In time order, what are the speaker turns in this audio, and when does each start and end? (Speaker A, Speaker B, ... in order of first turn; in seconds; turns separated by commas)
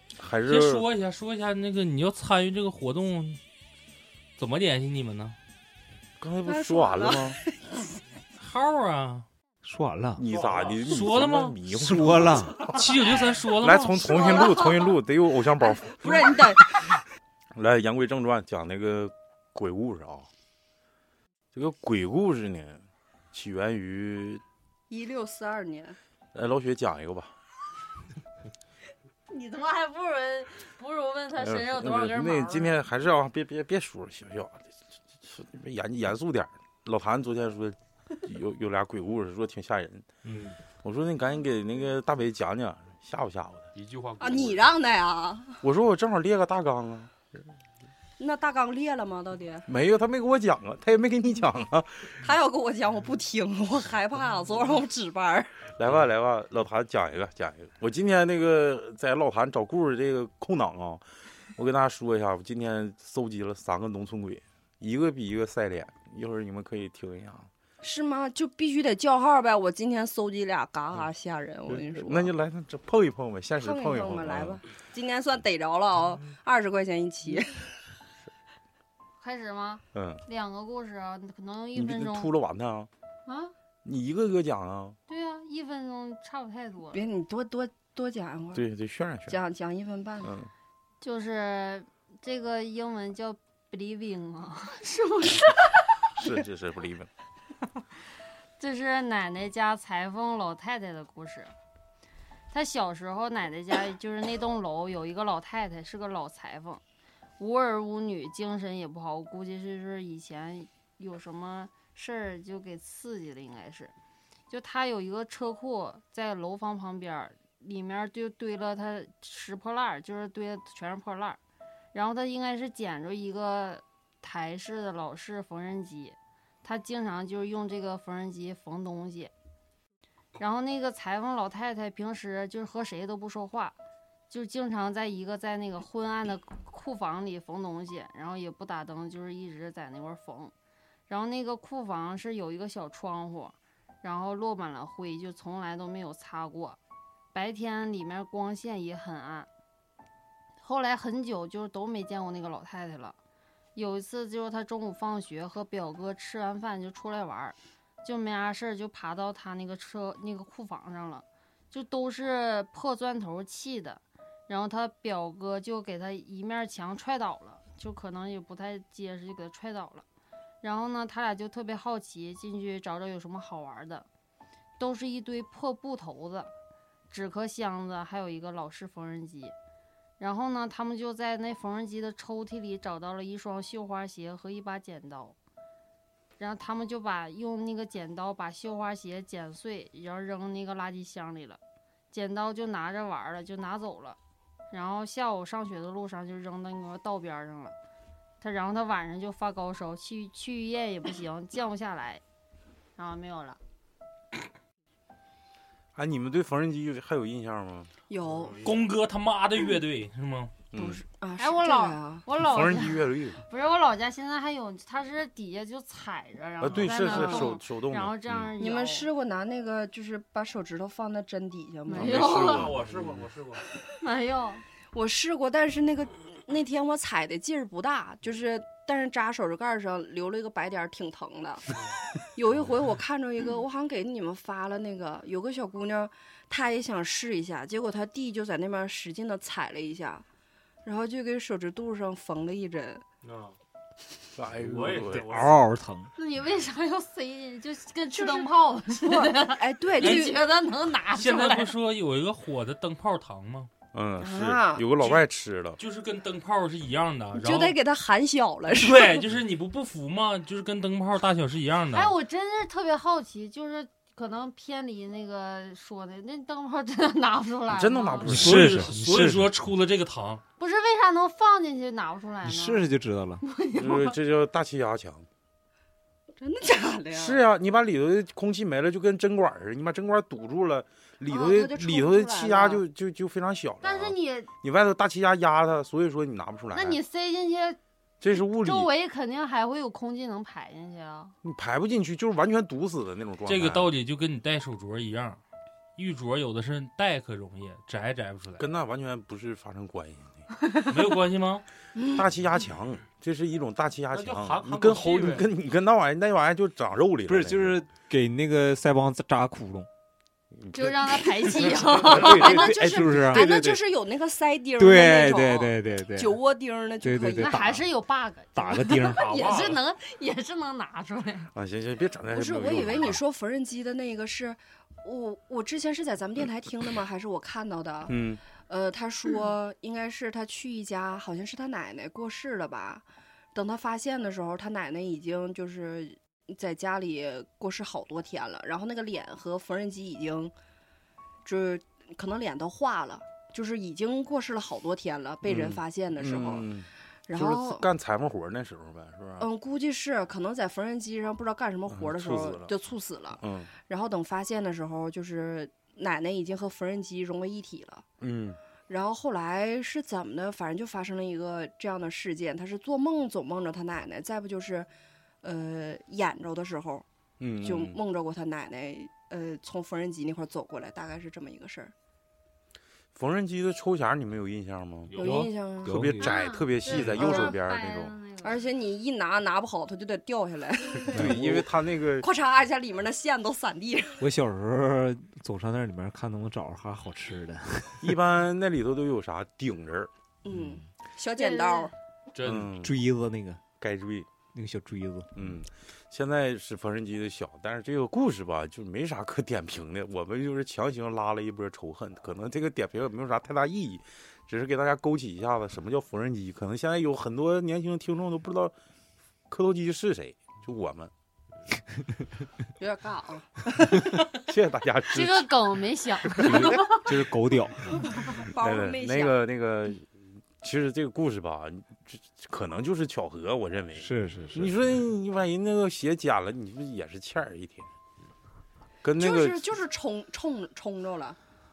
Speaker A: 0.2-0.8, Speaker B: 0.5-3.4, Speaker B: 4.4-5.3, Speaker A: 6.2-7.4, Speaker C: 6.4-7.8, Speaker B: 8.4-9.3, Speaker D: 9.6-10.2, Speaker A: 10.2-12.9, Speaker E: 10.3-10.9, Speaker B: 10.8-11.5, Speaker D: 11.7-12.7, Speaker B: 12.6-14.1, Speaker A: 13.6-16.4, Speaker C: 14.0-15.0, Speaker C: 15.6-16.9, Speaker A: 17.6-20.3, Speaker A: 21.5-24.4, Speaker C: 24.9-26.0, Speaker A: 26.3-27.3, Speaker F: 29.3-32.7, Speaker A: 31.4-34.7, Speaker A: 35.2-40.0, Speaker E: 40.2-40.6, Speaker A: 40.8-43.7, Speaker E: 43.7-44.7, Speaker C: 44.2-45.6, Speaker A: 45.6-47.4, Speaker C: 48.2-49.6, Speaker A: 49.6-52.2, Speaker C: 52.2-55.6, Speaker A: 55.8-61.0, Speaker A: 61.5-67.5, Speaker C: 67.8-72.3, Speaker A: 71.7-74.6, Speaker C: 73.6-77.7, Speaker F: 79.2-82.3, Speaker A: 79.9-80.2, Speaker A: 81.7-82.9, Speaker F: 83.2-83.5, Speaker A: 83.8-85.0, Speaker F: 85.1-87.0, Speaker C: 86.9-88.6, Speaker A: 88.5-89.4, Speaker C: 89.3-90.3, Speaker A: 90.2-90.5, Speaker F: 91.0-96.0, Speaker A: 96.2-97.1, Speaker F: 98.6-101.5, Speaker F: 102.5-106.8, Speaker F: 107.4-113.9, Speaker F: 114.5-121.4, Speaker F: 121.9-129.3, Speaker F: 130.4-133.8, Speaker F: 134.3-140.5, Speaker F: 141.1-146.8, Speaker F: 147.3-149.5, Speaker F: 150.6-153.2, Speaker F: 153.7-170.1, Speaker F: 170.6-174.1, Speaker F: 174.8-176.5, Speaker F: 177.1-179.5, Speaker F: 180.2-185.4, Speaker F: 186.4-191.6, Speaker F: 192.1-194.2, Speaker F: 194.7-197.7, Speaker F: 198.4-202.2, Speaker F: 202.9-203.6, Speaker A: 205.9-207.9, Speaker C: 208.1-208.7, Speaker E: 208.2-208.9, Speaker B: 208.6-210.5, Speaker A: 210.7-211.0, Speaker C: 210.7-212.3, Speaker F: 211.4-219.1, Speaker A: 212.4-213.4, Speaker A: 216.6-218.5, Speaker C: 217.0-217.6, Speaker C: 218.6-222.6, Speaker F: 221.8-222.7, Speaker A: 221.9-223.2, Speaker E: 222.1-223.7, Speaker F: 224.0-224.6, Speaker C: 224.9-231.8, Speaker C: 232.3-240.2, Speaker C: 240.8-243.0, Speaker E: 243.2-243.6, Speaker A: 244.3-245.4, Speaker E: 244.6-245.6, Speaker D: 245.2-246.1, Speaker F: 246.2-251.7, Speaker C: 248.1-250.4, Speaker B: 250.0-250.3, Speaker B: 251.1-253.7, Speaker A: 253.9-255.8, Speaker C: 254.2-254.9, Speaker B: 255.8-257.8, Speaker C: 257.3-259.3, Speaker B: 258.7-262.1, Speaker F: 261.9-268.5, Speaker A: 267.7-268.9, Speaker B: 268.2-270.4, Speaker D: 268.3-269.5, Speaker F: 270.6-272.9, Speaker D: 272.4-273.4, Speaker F: 273.4-274.2, Speaker A: 273.7-275.2, Speaker C: 276.4-277.4, Speaker A: 277.1-287.0, Speaker C: 281.3-282.8, Speaker F: 283.8-284.5, Speaker F: 286.7-287.8, Speaker A: 288.2-288.9, Speaker F: 288.3-291.3, Speaker A: 291.4-293.9, Speaker B: 293.4-295.4, Speaker B: 296.0-298.6, Speaker A: 298.6-300.4, Speaker B: 300.8-301.6, Speaker C: 301.9-302.2, Speaker A: 302.1-307.8, Speaker E: 304.1-305.5, Speaker D: 307.3-309.9, Speaker A: 310.6-311.8, Speaker F: 310.7-312.7, Speaker D: 312.0-313.8, Speaker C: 312.0-317.8, Speaker D: 314.8-316.4, Speaker D: 317.0-317.8, Speaker F: 317.4-321.5, Speaker D: 318.5-319.2, Speaker E: 319.1-319.8, Speaker A: 321.5-323.2, Speaker C: 322.3-340.5, Speaker A: 328.1-328.4, Speaker C: 341.4-346.7, Speaker A: 345.4-349.5, Speaker C: 347.3-347.9, Speaker C: 349.4-358.0, Speaker A: 351.9-352.7, Speaker A: 353.4-353.7, Speaker A: 358.2-358.6, Speaker C: 358.9-364.9, Speaker C: 365.4-367.0, Speaker A: 367.4-368.0, Speaker C: 367.6-371.9, Speaker A: 373.1-378.1, Speaker E: 375.1-375.5, Speaker C: 375.2-376.1, Speaker D: 375.8-376.4, Speaker F: 376.2-378.6, Speaker C: 376.9-377.6, Speaker C: 378.4-384.2, Speaker F: 380.8-381.1, Speaker A: 381.1-382.3, Speaker D: 381.1-381.4, Speaker D: 384.2-388.2, Speaker A: 388.0-390.1, Speaker C: 390.4-391.9, Speaker D: 390.5-390.8, Speaker F: 391.3-391.9, Speaker E: 392.3-392.8, Speaker A: 392.4-392.9, Speaker D: 392.8-393.6, Speaker A: 393.8-394.3, Speaker D: 394.5-395.5, Speaker A: 395.3-408.7, Speaker A: 409.5-411.1, Speaker C: 412.8-414.1, Speaker A: 414.4-415.5, Speaker F: 415.1-417.0, Speaker A: 416.3-417.0, Speaker D: 416.4-417.9, Speaker C: 418.4-419.4, Speaker A: 418.5-427.9, Speaker D: 424.0-424.8, Speaker A: 429.0-429.7, Speaker C: 429.1-431.4